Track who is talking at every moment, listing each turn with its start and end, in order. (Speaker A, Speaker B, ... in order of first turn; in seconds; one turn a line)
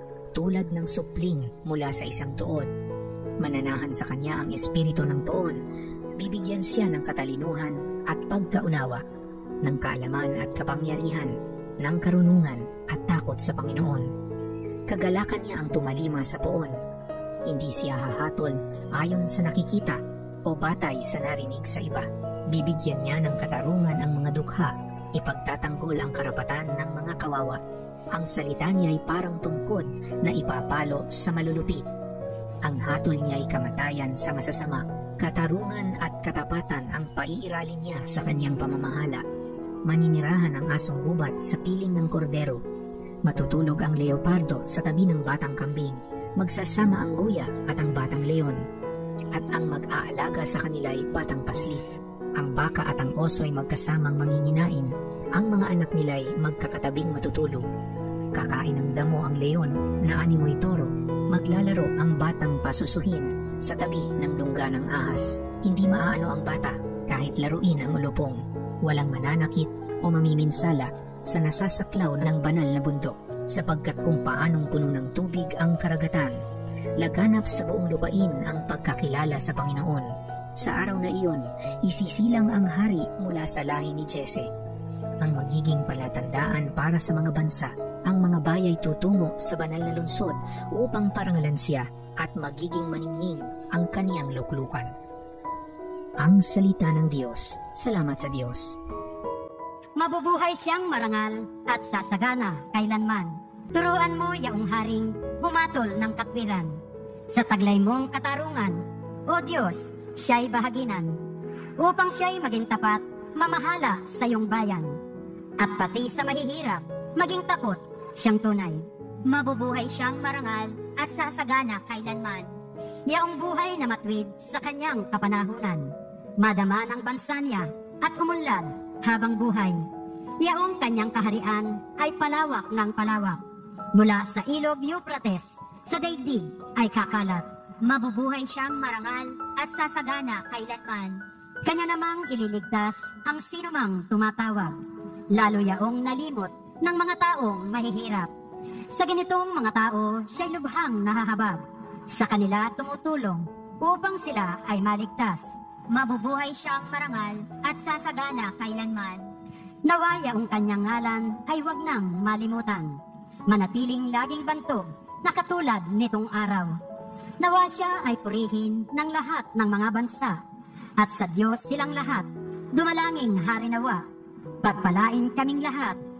Speaker A: 0.4-2.6
Speaker A: 3.4-5.5
Speaker A: 6.2-9.0
Speaker A: 9.7-11.2
Speaker A: 11.9-14.0
Speaker A: 14.9-16.7
Speaker A: 17.6-18.5
Speaker A: 19.0-19.9
Speaker A: 20.5-22.0
Speaker A: 22.6-24.7
Speaker A: 25.2-27.5
Speaker A: 28.2-31.8
Speaker A: 32.7-39.1
Speaker A: 39.9-42.5
Speaker A: 43.3-45.9
Speaker A: 46.4-48.5
Speaker A: 49.4-51.8
Speaker A: 52.4-54.8
Speaker A: 55.4-57.6
Speaker A: 58.4-60.8
Speaker A: 61.4-65.2
Speaker A: 65.7-68.3
Speaker A: 68.9-69.6
Speaker A: 70.1-70.8
Speaker A: 71.4-76.3
Speaker A: 77.0-80.0
Speaker A: 80.6-84.4
Speaker A: 85.2-94.8
Speaker A: 96.3-98.5
Speaker B: 100.0-106.8
Speaker B: 107.3-111.2
Speaker B: 111.8-115.0
Speaker B: 115.6-118.8
Speaker C: 119.3-122.6
Speaker B: 123.1-129.8
Speaker B: 130.4-133.4
Speaker B: 133.9-137.4
Speaker C: 137.8-141.2
Speaker B: 141.6-144.7
Speaker B: 145.3-148.3
Speaker B: 148.9-155.5
Speaker C: 155.9-159.3
Speaker B: 159.8-163.0
Speaker B: 163.5-166.7
Speaker B: 167.4-170.4
Speaker B: 171.0-174.0
Speaker B: 174.6-176.0